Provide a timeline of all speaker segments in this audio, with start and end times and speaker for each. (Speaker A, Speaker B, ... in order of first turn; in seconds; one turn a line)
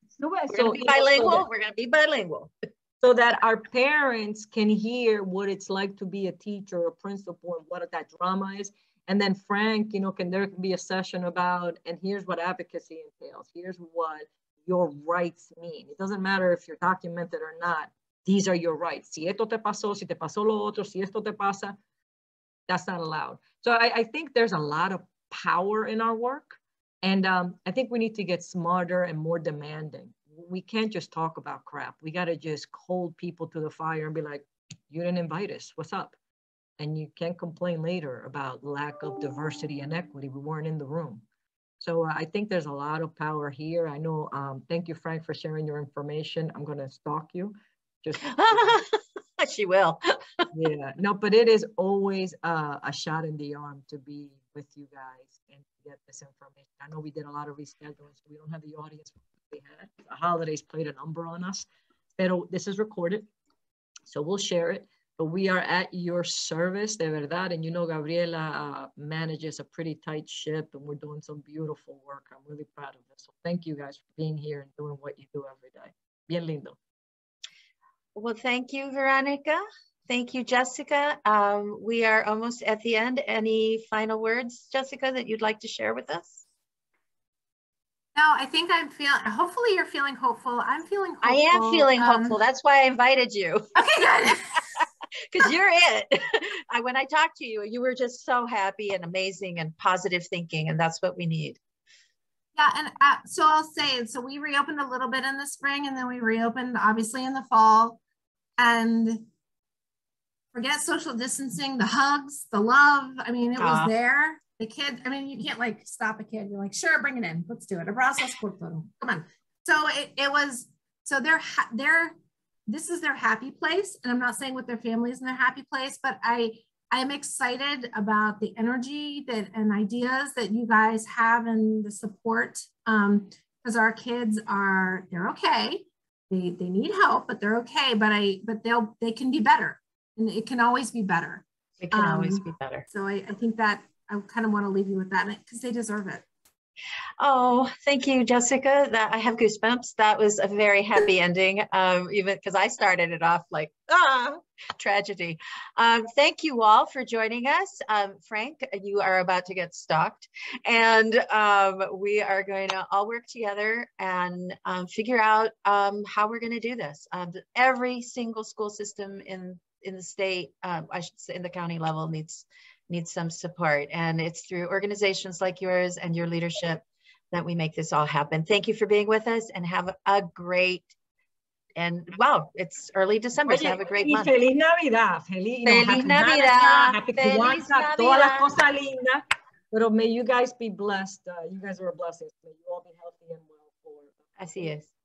Speaker A: 0.2-1.5
Speaker B: 0.5-2.5
Speaker A: 3.0-21.8
Speaker A: 22.7-36.2
Speaker A: 36.8-41.2
Speaker A: 41.8-48.8
Speaker B: 48.3-50.5
Speaker A: 50.5-61.6
Speaker A: 62.2-63.3
Speaker A: 64.1-76.8
Speaker B: 78.1-86.4
Speaker C: 88.1-92.4
Speaker B: 91.2-93.7
Speaker C: 93.8-94.7
Speaker B: 95.3-101.6
Speaker C: 102.5-108.0
Speaker C: 108.6-109.3
Speaker C: 110.5-122.1
Speaker B: 113.6-113.9
Speaker C: 122.7-146.2
Speaker B: 141.8-142.8
Speaker B: 147.2-180.9
Speaker B: 181.8-184.3
Speaker A: 183.4-194.2
Speaker B: 185.6-188.5
Speaker B: 194.4-194.9